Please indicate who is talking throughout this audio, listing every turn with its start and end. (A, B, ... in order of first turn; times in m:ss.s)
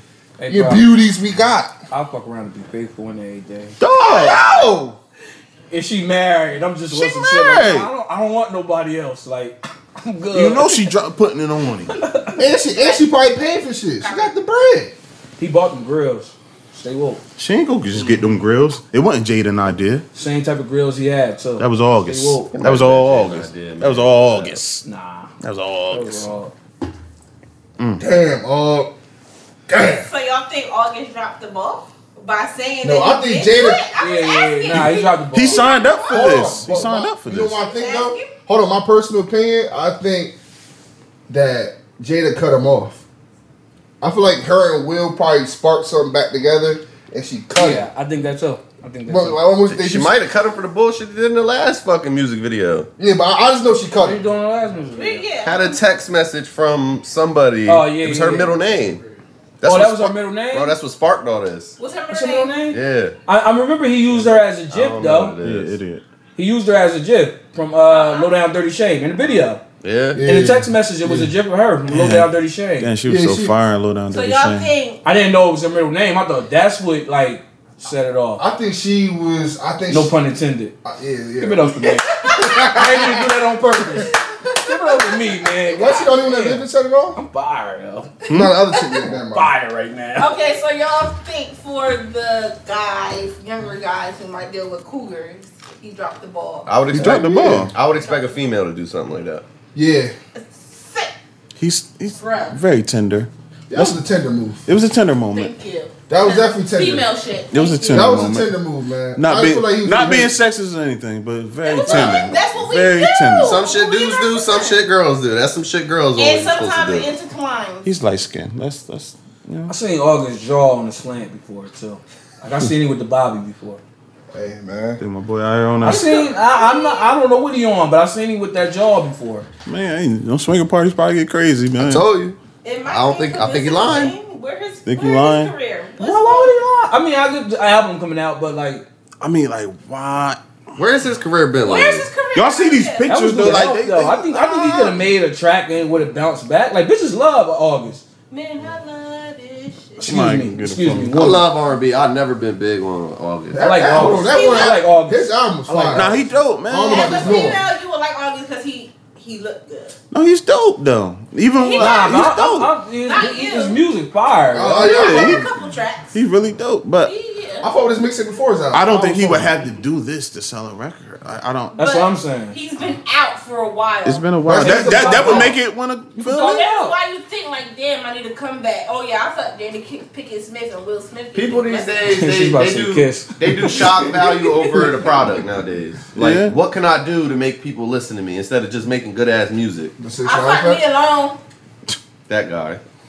0:00.4-0:00.9 A
0:00.5-0:01.7 B
0:01.9-0:03.8 A
0:03.8-0:04.5 C
0:04.0-0:05.0 B
0:05.7-0:10.9 A
0:06.9-0:07.9 C
0:10.3-0:12.0 C
0:11.9-0:12.4 A
0:12.4-0:15.0 B
0:12.8-0:13.1 D
0:14.0-0:14.3 D
0:15.4-0:17.2 A
0:17.4-0:20.0 C
0:18.0-0:18.2 A
0:20.2-0:22.5 A
0:21.6-0:24.8 C
0:22.5-0:24.6 E
0:24.8-0:25.3 A
0:25.4-0:26.3 C
0:25.9-0:26.5 A
0:27.8-0:28.0 C
0:28.0-0:28.9 B
0:29.7-0:30.1 B
0:29.9-0:36.6 D
0:32.8-0:33.8 B
0:34.0-0:35.7 A
0:34.7-0:37.6 C
0:36.0-0:40.3 B
0:37.6-0:38.3 D
0:41.3-0:43.0 B
0:44.0-0:47.9 B
0:47.6-0:49.5 A
0:49.1-0:50.2 B
0:49.7-0:52.9 E
0:53.0-0:54.2 B
0:54.0-0:55.3 A
0:55.0-0:55.8 D
0:55.4-0:59.0 E
0:57.7-0:58.6 A
0:59.6-1:01.8 E
0:59.6-1:00.8 A
1:01.8-1:02.6 D
1:02.1-1:05.4 A
1:02.7-1:03.2 E
1:04.1-1:05.8 E
1:05.4-1:06.0 C
1:06.4-1:09.6 A
1:07.9-1:08.3 D
1:09.8-1:10.2 E
1:10.1-1:11.3 B
1:10.2-1:12.9 A
1:11.9-1:14.7 C
1:13.0-1:13.5 B
1:14.1-1:15.0 D
1:15.0-1:18.4 A
1:18.4-1:20.1 B
1:19.9-1:20.8 A
1:20.8-1:24.7 B
1:21.4-1:28.2 A
1:22.0-1:22.8 D
1:25.6-1:27.2 B
1:28.3-1:29.5 B
1:29.3-1:30.4 A
1:30.2-1:36.8 D
1:36.7-1:39.4 E
1:36.9-1:37.7 B
1:36.9-1:37.7 C
1:38.0-1:38.4 D
1:39.7-1:40.1 B
1:40.4-1:41.1 D
1:41.6-1:44.0 C
1:42.2-1:42.6 D
1:43.7-1:44.6 B
1:44.7-1:45.5 C
1:45.3-1:48.2 D
1:46.1-1:47.1 B
1:47.5-1:48.5 C
1:47.9-1:50.3 B
1:49.2-1:53.6 C
1:51.6-1:54.8 D
1:53.4-1:57.1 E
1:56.2-1:57.9 D
1:57.8-1:59.7 C
1:59.7-2:03.8 A
2:04.3-2:05.0 B
2:05.0-2:06.2 C
2:05.8-2:09.5 A
2:05.9-2:07.2 D
2:09.7-2:12.1 C
2:11.8-2:14.1 E
2:12.6-2:16.6 D
2:14.8-2:15.5 C
2:16.0-2:18.8 A
2:19.2-2:20.4 C
2:20.8-2:22.1 E
2:21.6-2:23.1 D
2:22.3-2:24.9 C
2:23.1-2:28.0 A
2:28.3-2:30.1 D
2:30.0-2:31.4 C
2:30.0-2:31.5 A
2:31.2-2:33.7 E
2:33.5-2:36.2 B
2:33.6-2:36.2 A
2:33.9-2:34.8 D
2:35.9-2:37.5 C
2:36.7-2:37.7 B
2:36.9-2:40.0 D
2:40.1-2:42.7 C
2:41.5-2:42.4 D
2:41.7-2:45.0 A
2:43.0-2:43.8 D
2:44.5-2:45.5 B
2:44.8-2:46.2 D
2:44.8-2:45.5 C
2:46.1-2:47.1 C
2:47.0-2:47.7 D
2:47.6-2:49.5 B
2:48.7-2:51.8 C
2:51.8-2:52.6 A
2:51.8-2:54.3 D
2:54.0-2:56.6 C
2:54.4-2:55.5 B
2:54.6-2:55.6 A
2:54.9-2:55.5 D
2:56.2-2:57.0 A
2:56.3-3:02.1 D
3:01.3-3:09.9 E
3:02.0-3:04.9 A
3:06.2-3:06.6 C
3:10.0-3:10.8 B
3:10.2-3:11.4 D
3:12.3-3:12.8 E